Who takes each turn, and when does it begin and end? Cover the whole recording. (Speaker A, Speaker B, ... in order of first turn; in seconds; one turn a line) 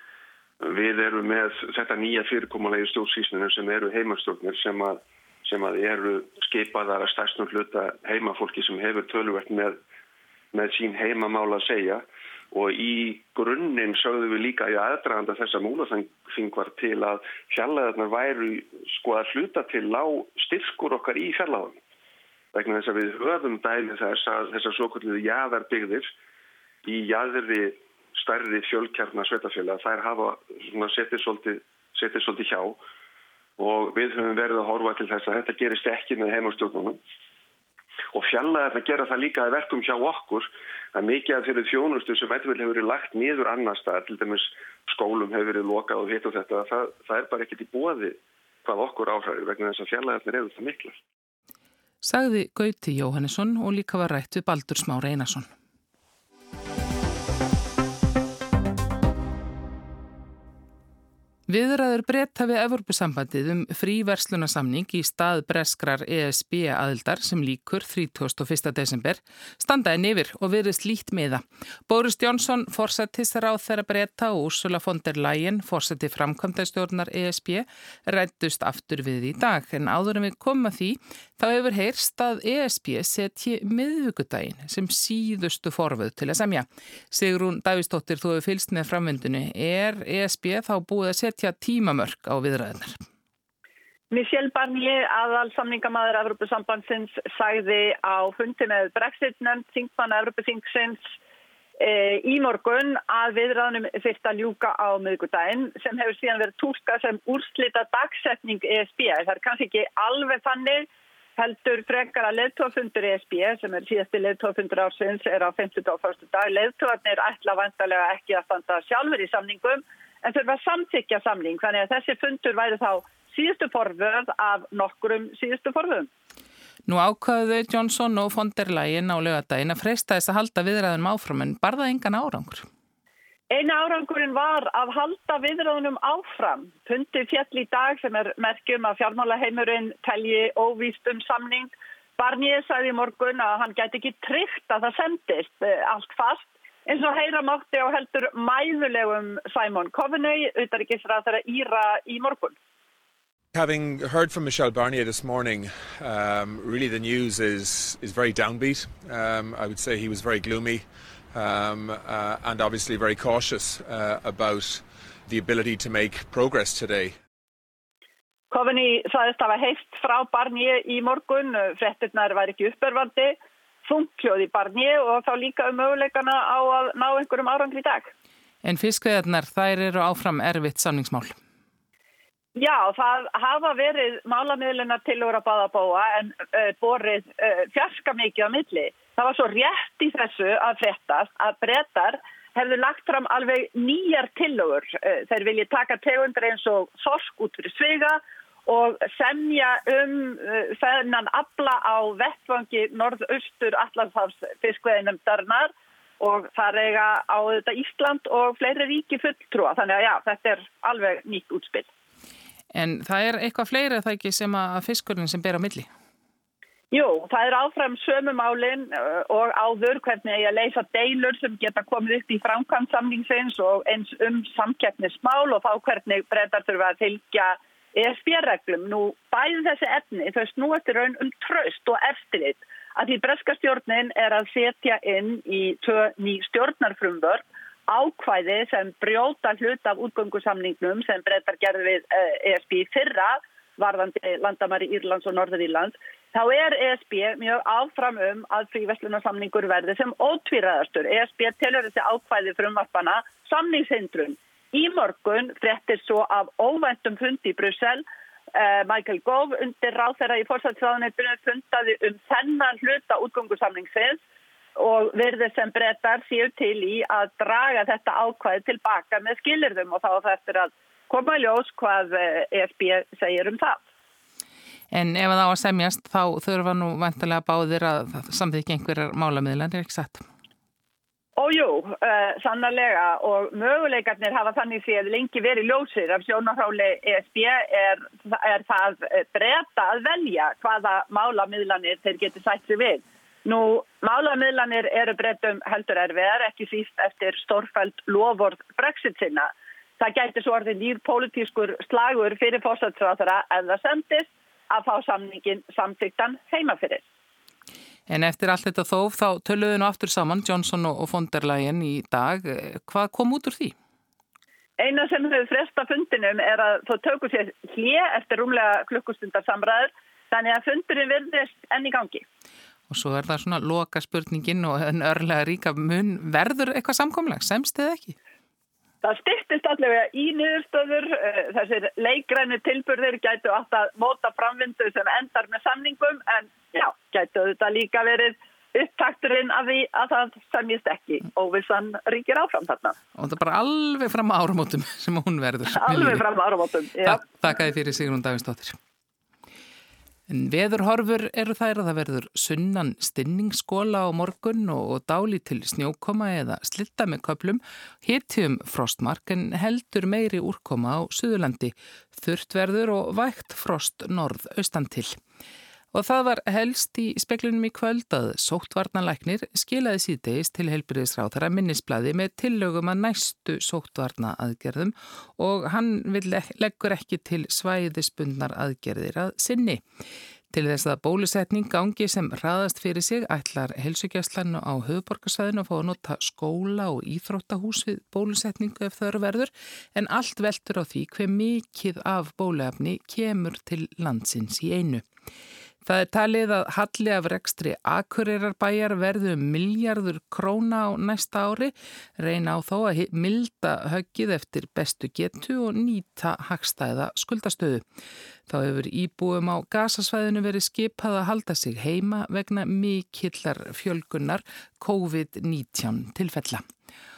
Speaker A: 0.6-9.8
Speaker A: 10.5-21.8
Speaker A: 22.5-26.1
Speaker A: 26.8-32.8
Speaker A: 33.6-37.0
Speaker A: 38.1-51.0
Speaker B: 52.0-55.5
Speaker B: 61.5-93.0
Speaker C: 94.1-101.1
Speaker C: 101.8-126.1
Speaker B: 126.9-132.7
Speaker C: 133.5-152.6
Speaker D: 153.5-167.2
Speaker C: 168.5-178.1
Speaker B: 178.6-181.4
Speaker C: 182.6-211.9
Speaker B: 212.7-215.9
Speaker C: 216.9-264.2
Speaker C: 264.8-273.8
Speaker B: 274.9-280.2
Speaker C: 281.4-307.1
Speaker B: 308.1-313.8
Speaker C: 314.8-322.2
Speaker B: 322.9-328.2
Speaker C: 329.0-343.0
Speaker B: 343.2-346.2
Speaker C: 345.7-347.2
Speaker B: 347.0-348.8
Speaker B: 350.3-365.2
Speaker B: 365.9-379.8
Speaker B: 380.5-395.0
Speaker B: 395.9-407.8
Speaker B: 408.5-416.6